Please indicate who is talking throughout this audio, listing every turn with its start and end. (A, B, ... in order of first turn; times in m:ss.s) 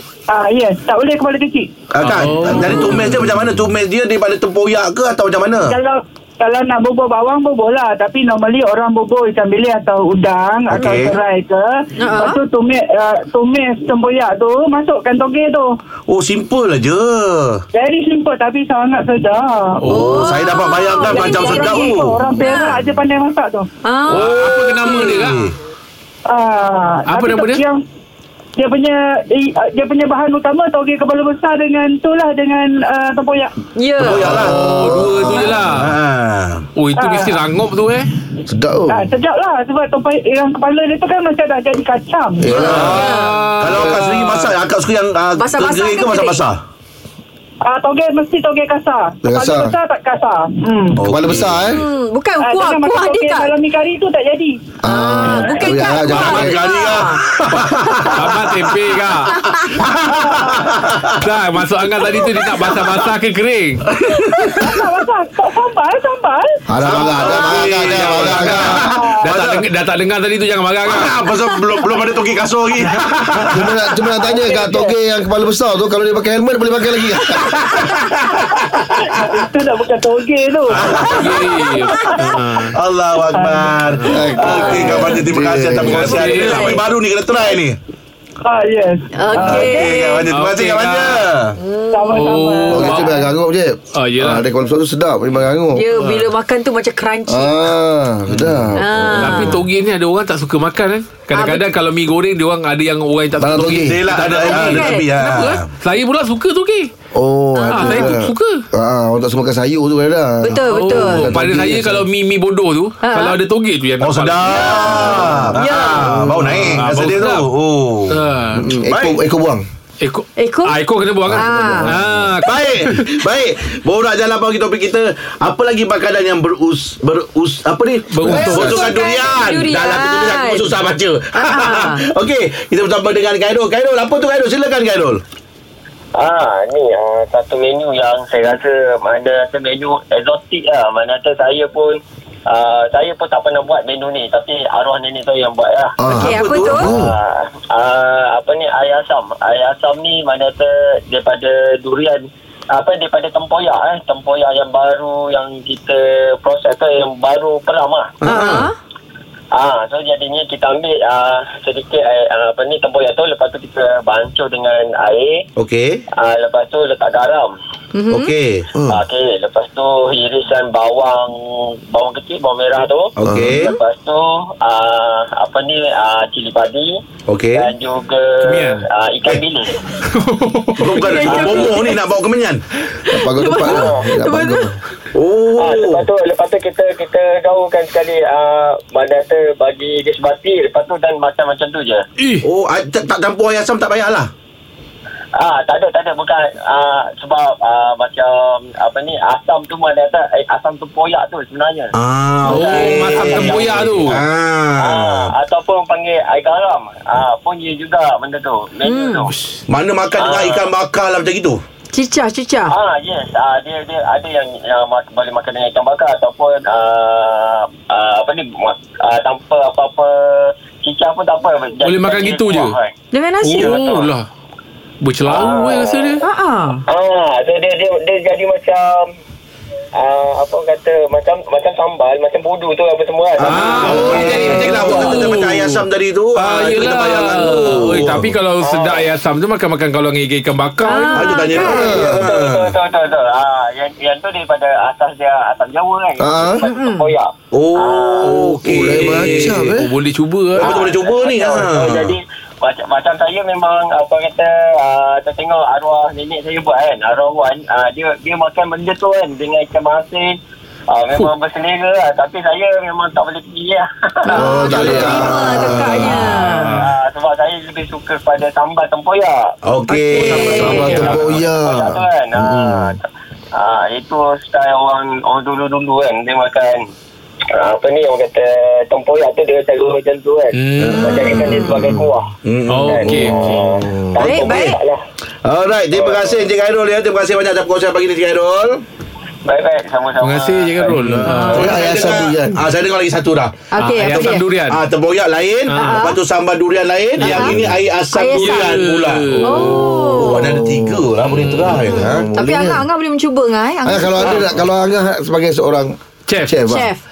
0:00.3-0:01.7 A
0:01.9-0:05.8 B
0:02.0-0:03.3 C
0:05.6-0:15.8 A
0:10.7-0:11.2 B
0:12.0-0:12.4 D
0:16.1-0:17.6 B
0:17.7-0:19.8 A
0:19.8-0:20.2 C
0:19.9-0:22.4 B
0:19.9-0:22.8 D
0:20.9-0:23.7 A
0:23.8-0:25.2 D
0:24.1-0:25.5 C
0:24.1-0:25.6 B
0:26.3-0:27.8 A
0:27.1-0:27.6 C
0:28.6-0:33.5 A
0:33.8-0:34.3 D
0:34.0-0:36.7 B
0:34.0-0:35.6 E
0:34.3-0:36.0 C
0:36.8-0:38.1 C
0:37.0-0:37.4 A
0:38.5-0:39.1 E
0:38.9-0:42.6 A
0:42.4-0:43.1 E
0:42.6-0:46.6 B
0:42.6-0:44.5 C
0:42.8-0:43.4 D
0:43.7-0:44.0 E
0:45.4-0:46.4 D
0:47.6-0:51.1 A
0:49.2-0:49.7 E
0:51.0-0:51.7 B
0:51.0-0:51.8 E
0:51.7-0:53.5 D
0:52.4-0:54.6 A
0:54.8-0:56.7 E
0:54.9-0:57.2 D
0:55.2-0:55.7 A
0:56.0-1:01.3 B
0:56.1-0:56.4 C
0:58.1-0:59.4 C
0:59.4-0:59.7 D
0:59.9-1:00.7 A
1:01.2-1:03.9 C
1:02.0-1:03.0 B
1:03.9-1:04.8 B
1:04.6-1:06.6 A
1:06.7-1:08.8 E
1:06.8-1:09.6 B
1:07.9-1:08.7 C
1:08.6-1:09.2 A
1:09.2-1:11.3 C
1:10.9-1:13.7 B
1:13.4-1:17.6 E
1:17.4-1:18.8 B
1:19.0-1:22.4 A
1:20.7-1:22.7 C
1:20.7-1:21.4 B
1:22.7-1:27.8 B
1:23.3-1:25.1 A
1:24.1-1:26.2 E
1:24.5-1:25.1 D
1:25.8-1:26.8 C
1:26.3-1:26.8 D
1:28.5-1:30.2 A
1:29.1-1:30.2 D
1:29.3-1:31.6 B
1:30.3-1:31.3 C
1:31.6-1:32.6 D
1:31.9-1:33.1 A
1:32.1-1:33.1 C
1:32.7-1:35.9 E
1:33.9-1:34.5 C
1:35.8-1:37.6 D
1:36.0-1:36.3 C
1:37.3-1:39.6 E
1:38.3-1:38.7 B
1:38.8-1:39.6 D
1:39.2-1:46.9 C
1:41.3-1:41.7 D
1:43.4-1:44.0 E
1:43.6-1:45.6 B
1:44.3-1:45.1 D
1:47.2-1:52.0 E
1:47.6-1:48.1 D
1:47.7-1:48.6 C
1:50.4-1:51.4 D
1:50.7-1:55.2 C
1:53.0-1:53.4 D
1:54.0-1:58.2 B
1:54.5-1:56.1 D
1:55.0-1:56.8 E
1:56.8-1:57.5 C
1:58.1-1:58.7 C
1:58.5-1:59.6 E
1:58.8-1:59.2 B
2:00.0-2:03.0 C
2:00.4-2:00.8 D
2:01.3-2:02.3 E
2:01.3-2:01.9 D
2:02.4-2:15.2 B
2:08.1-2:08.9 C
2:08.2-2:08.9 E
2:08.3-2:10.8 D
2:11.4-2:12.1 D
2:16.2-2:38.2 F
2:26.0-2:27.1 E
2:26.1-2:26.9 D
2:26.2-2:27.0 B
2:38.2-2:38.7 B
2:38.2-2:38.8 D
2:39.5-2:45.5 F
2:45.6-2:46.0 B
2:46.1-2:47.5 F
2:48.0-2:48.3 D
2:48.1-2:48.7 B
2:48.8-2:49.0 E
2:48.8-2:57.0 F
2:53.2-2:53.8 B
2:53.2-2:53.6 E
2:57.3-2:57.7 B
2:57.5-2:59.8 F
2:58.4-2:58.8 C
3:00.1-3:01.6 C
3:00.8-3:02.6 B
3:01.0-3:02.0 D
3:03.0-3:04.7 D
3:03.1-3:04.8 E
3:03.7-3:04.0 F
3:05.1-3:06.0 B
3:05.6-3:12.0 F
3:12.2-3:12.4 C
3:12.4-3:14.3 B
3:15.4-3:21.9 F
3:21.9-3:25.3 B
3:22.4-3:24.2 F
3:22.4-3:24.2 C
3:24.8-3:29.3 F
3:28.8-3:29.3 D
3:29.7-3:31.6 B
3:30.2-3:30.7 F
3:31.9-3:32.7 D
3:32.7-3:43.0 F
3:41.8-3:42.8 C
3:43.1-3:43.7 D
3:43.4-3:44.2 C
3:43.5-3:44.1 F
3:45.0-3:46.2 C
3:45.3-3:46.2 F
3:46.2-3:46.8 D
3:46.9-3:49.1 F
3:50.0-3:55.4 F
3:53.4-3:58.3 B
3:53.4-4:01.5 C
3:58.6-3:59.1 F
4:00.8-4:02.0 D
4:01.1-4:02.7 B
4:01.6-4:02.2 E
4:01.6-4:08.5 F
4:06.2-4:06.6 E
4:06.6-4:07.1 D
4:07.5-4:09.7 B
4:08.2-4:10.8 C
4:08.6-4:09.9 E
4:10.6-4:20.4 F
4:10.6-4:12.2 B
4:20.9-4:25.3 F
4:24.2-4:26.8 D
4:24.4-4:26.2 E
4:26.1-4:26.9 C
4:26.7-4:29.5 F
4:29.7-4:31.4 B
4:30.1-4:30.9 D
4:30.5-4:33.0 E
4:30.8-4:31.2 C
4:31.0-4:33.0 F
4:33.5-4:36.8 F
4:37.5-4:42.3 F
4:40.5-4:41.7 C
4:40.8-4:41.7 B
4:41.1-4:42.1 E
4:42.5-4:43.6 B
4:42.7-4:43.5 C
4:42.8-4:45.0 F
4:43.1-4:44.2 E
4:44.2-4:44.8 D
4:44.2-4:44.8 B
4:45.4-4:48.8 B
4:46.0-4:46.2 F
4:49.5-4:51.2 F
4:50.2-4:51.8 C
4:51.2-4:52.6 E
4:51.3-4:51.6 D
4:51.3-5:02.3 B
4:53.7-4:54.5 D
4:53.8-4:54.8 C
4:55.7-4:56.2 C
4:55.7-4:56.2 D
4:57.2-4:57.6 D
4:57.2-4:57.5 C
4:57.4-4:57.8 E
4:58.1-4:58.8 D
4:58.3-4:59.9 C
4:59.4-5:00.5 D
4:59.5-5:01.1 E
5:01.2-5:01.9 C
5:01.6-5:02.8 E
5:01.9-5:04.4 D
5:03.8-5:05.9 E
5:04.2-5:04.6 B
5:06.3-5:06.6 C
5:06.5-5:06.9 E
5:06.6-5:07.0 D